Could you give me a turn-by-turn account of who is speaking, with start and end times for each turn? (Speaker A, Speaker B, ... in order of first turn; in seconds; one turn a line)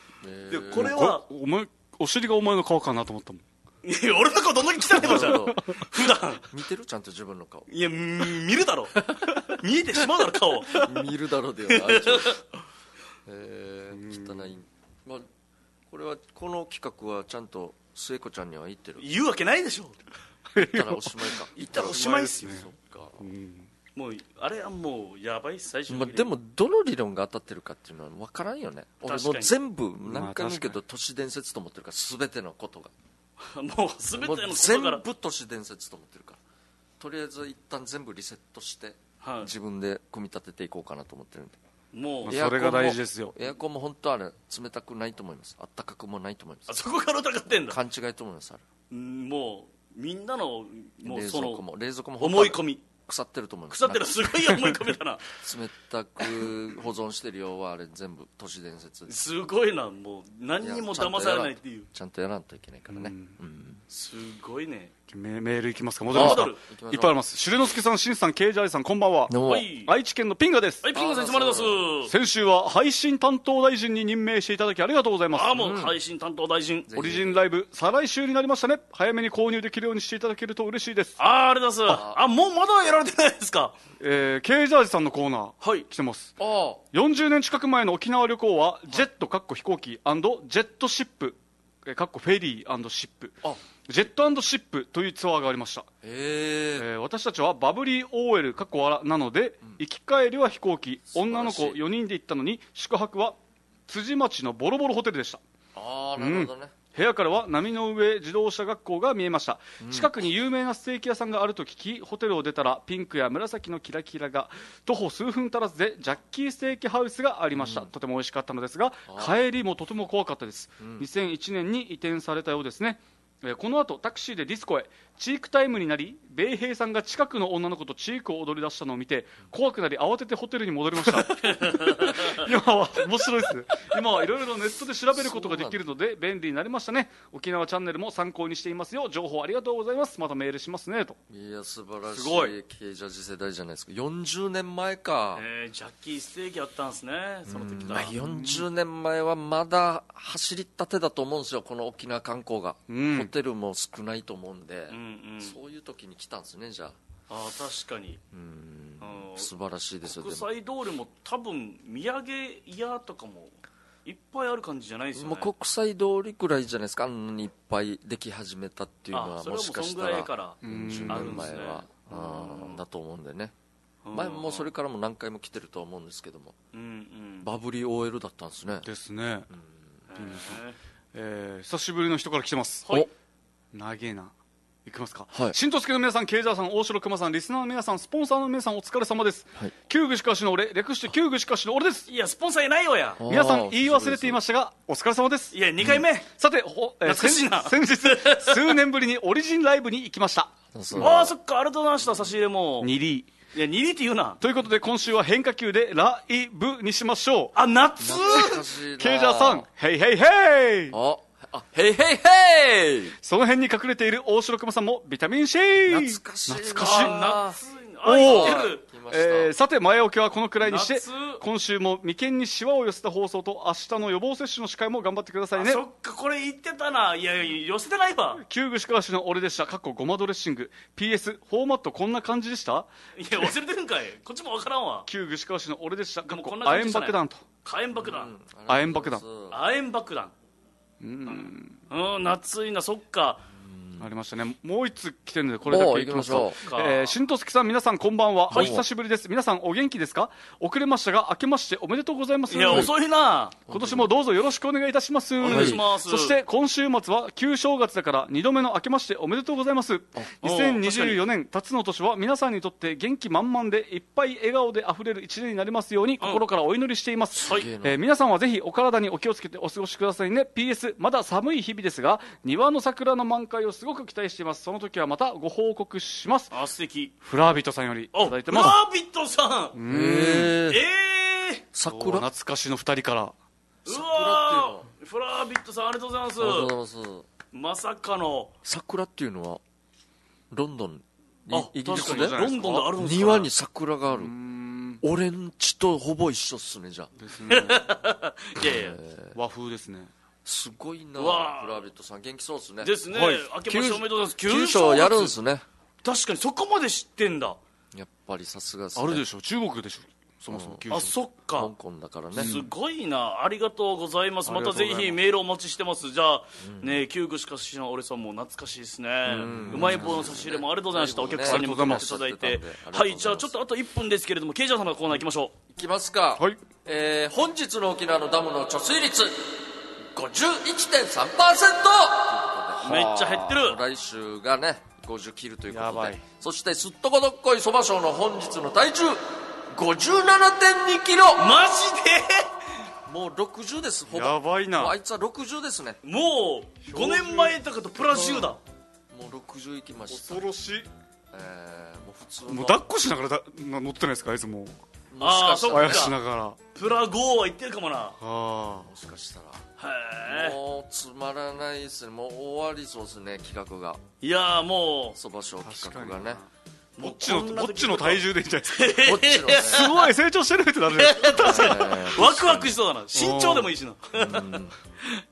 Speaker A: 0.2-0.9
Speaker B: 0.5-1.2
Speaker C: 0.7-3.4
Speaker B: 3.8-6.5
Speaker A: 4.9-5.7
Speaker C: 5.1-5.8
Speaker A: 6.5-7.7
Speaker B: 7.7-10.9
Speaker A: 10.7-12.4
Speaker B: 11.7-12.4
Speaker A: 13.2-15.2
Speaker C: 13.9-14.5
Speaker A: 15.9-19.0
Speaker B: 19.0-20.0
Speaker C: 20.5-22.7
Speaker A: 20.6-23.2
Speaker B: 21.6-22.6
Speaker C: 23.2-23.7
Speaker B: 23.9-26.3
Speaker A: 25.9-32.9
Speaker B: 29.0-29.5
Speaker C: 30.1-30.8
Speaker B: 33.4-35.0
Speaker A: 34.1-36.4
Speaker A: 37.0-41.6
Speaker B: 39.2-39.5
Speaker B: 41.9-42.4
Speaker C: 42.2-43.3
Speaker A: 42.2-46.9
Speaker B: 46.7-47.8
Speaker A: 47.6-48.6
Speaker B: 48.9-51.6
Speaker A: 51.0-54.5
Speaker B: 52.2-52.8
Speaker B: 53.7-55.2
Speaker A: 55.3-59.2
Speaker B: 59.1-61.9
Speaker A: 60.6-63.8
Speaker C: 62.9-63.4
Speaker B: 63.9-64.9
Speaker C: 65.1-70.8
Speaker B: 66.1-66.6
Speaker A: 66.1-67.2
Speaker A: 69.3-69.7
Speaker B: 69.4-69.9
Speaker B: 70.8-72.1
Speaker A: 70.9-71.8
Speaker C: 72.1-75.8
Speaker B: 75.3-76.9
Speaker A: 75.5-75.9
Speaker A: 76.9-77.4
Speaker C: 76.9-81.2
Speaker B: 81.2-83.8
Speaker A: 81.9-82.2
Speaker C: 84.0-86.4
Speaker B: 85.6-85.9
Speaker A: 86.4-86.8
Speaker C: 86.9-95.9
Speaker A: 96.0-96.9
Speaker C: 96.8-103.3
Speaker A: 101.1-101.8
Speaker C: 103.9-105.4
Speaker A: 105.7-106.7
Speaker C: 106.2-141.2
Speaker A: 109.8-110.3
Speaker A: 117.5-117.9
Speaker A: 119.1-119.4
Speaker A: 120.8-121.1
Speaker B: 131.4-132.4
Speaker A: 135.1-135.8
Speaker A: 141.3-145.4
Speaker C: 142.1-142.6
Speaker B: 145.3-148.1
Speaker A: 147.5-157.0
Speaker C: 147.9-148.7
Speaker C: 152.9-153.3
Speaker B: 154.9-155.6
Speaker B: 157.3-158.2
Speaker A: 158.3-160.5
Speaker B: 159.0-159.5
Speaker B: 160.0-165.5
Speaker A: 165.1-173.5
Speaker B: 169.1-172.8
Speaker C: 170.6-171.5
Speaker B: 174.0-174.7
Speaker A: 174.1-176.6
Speaker B: 176.7-177.5
Speaker A: 177.4-178.9
Speaker C: 178.8-179.5
Speaker A: 179.5-180.0
Speaker B: 180.1-180.8
Speaker C: 180.2-180.6
Speaker C: 181.1-182.9
Speaker C: 183.7-184.3
Speaker C: 184.8-192.1
Speaker A: 185.3-185.6
Speaker B: 192.1-193.2
Speaker A: 193.2-194.4
Speaker C: 193.3-201.1
Speaker B: 195.5-196.3
Speaker B: 197.0-198.8
Speaker A: 200.7-201.3
Speaker B: 200.9-202.9
Speaker C: 202.8-203.3
Speaker B: 203.5-204.4
Speaker C: 204.4-207.5
Speaker B: 207.5-208.6
Speaker A: 208.0-209.7
Speaker C: 209.0-211.0
Speaker A: 210.9-213.2
Speaker C: 213.2-217.2
Speaker A: 215.9-219.5
Speaker B: 216.8-218.8
Speaker C: 218.0-225.8
Speaker B: 220.6-221.4
Speaker B: 225.5-228.4
Speaker C: 228.4-232.9
Speaker B: 233.2-235.1
Speaker C: 235.1-237.4
Speaker B: 236.3-238.3
Speaker A: 237.9-239.6
Speaker C: 238.7-239.2
Speaker B: 239.5-240.3
Speaker C: 241.0-241.8
Speaker B: 241.3-243.5
Speaker A: 243.5-244.1
Speaker C: 244.0-252.9
Speaker A: 245.6-246.6
Speaker B: 246.6-247.1
Speaker B: 248.5-248.8
Speaker A: 248.5-248.8
Speaker B: 252.5-253.6
Speaker A: 252.7-252.9
Speaker A: 253.7-254.1
Speaker C: 253.7-276.5
Speaker B: 255.4-256.4
Speaker A: 255.4-255.8
Speaker B: 260.4-261.2
Speaker A: 267.3-268.0
Speaker B: 267.4-267.7
Speaker B: 276.5-277.1
Speaker C: 277.2-278.8
Speaker B: 278.1-279.8
Speaker C: 279.7-280.6
Speaker A: 279.9-280.8
Speaker B: 280.7-281.6
Speaker A: 281.7-282.3
Speaker C: 281.9-283.3
Speaker A: 283.9-284.9
Speaker B: 283.9-286.7
Speaker A: 286.4-287.3
Speaker B: 287.5-288.5
Speaker A: 288.6-289.6
Speaker A: 290.5-292.4
Speaker B: 291.5-293.5
Speaker C: 291.8-292.9
Speaker A: 292.9-294.3
Speaker C: 294.1-295.0
Speaker A: 295.0-297.1
Speaker C: 297.2-297.9
Speaker B: 297.5-299.0
Speaker A: 298.6-299.4
Speaker C: 299.3-300.1
Speaker A: 300.4-302.9
Speaker B: 301.1-301.9
Speaker B: 302.8-305.3
Speaker C: 303.1-303.4
Speaker A: 303.7-305.6
Speaker B: 306.0-307.6
Speaker A: 307.9-309.2
Speaker C: 308.9-311.2
Speaker A: 310.5-310.8
Speaker B: 310.9-311.7
Speaker A: 311.5-312.7
Speaker B: 312.3-325.6
Speaker C: 314.4-315.2
Speaker A: 316.6-317.0
Speaker C: 319.3-320.6
Speaker A: 319.3-323.6
Speaker C: 321.4-322.1
Speaker A: 325.7-341.6
Speaker C: 326.4-326.6
Speaker B: 332.8-333.8
Speaker C: 332.8-333.6
Speaker C: 335.7-336.2
Speaker B: 341.4-342.5
Speaker A: 343.1-346.0
Speaker C: 344.1-344.9
Speaker B: 346.0-348.6
Speaker C: 346.8-348.6
Speaker A: 349.1-350.5
Speaker C: 350.1-350.9
Speaker A: 351.3-352.8
Speaker C: 352.5-354.8
Speaker A: 355.1-356.1
Speaker B: 355.2-356.1
Speaker C: 355.7-356.6
Speaker B: 356.7-358.2
Speaker C: 358.2-358.9
Speaker A: 358.8-359.6
Speaker B: 359.8-360.6
Speaker A: 360.2-364.0
Speaker B: 364.2-365.2
Speaker A: 365.1-366.4
Speaker C: 365.6-372.2
Speaker B: 367.0-369.9
Speaker A: 368.9-369.9
Speaker B: 371.0-375.2
Speaker A: 371.4-372.8
Speaker C: 373.1-373.7
Speaker A: 374.1-374.8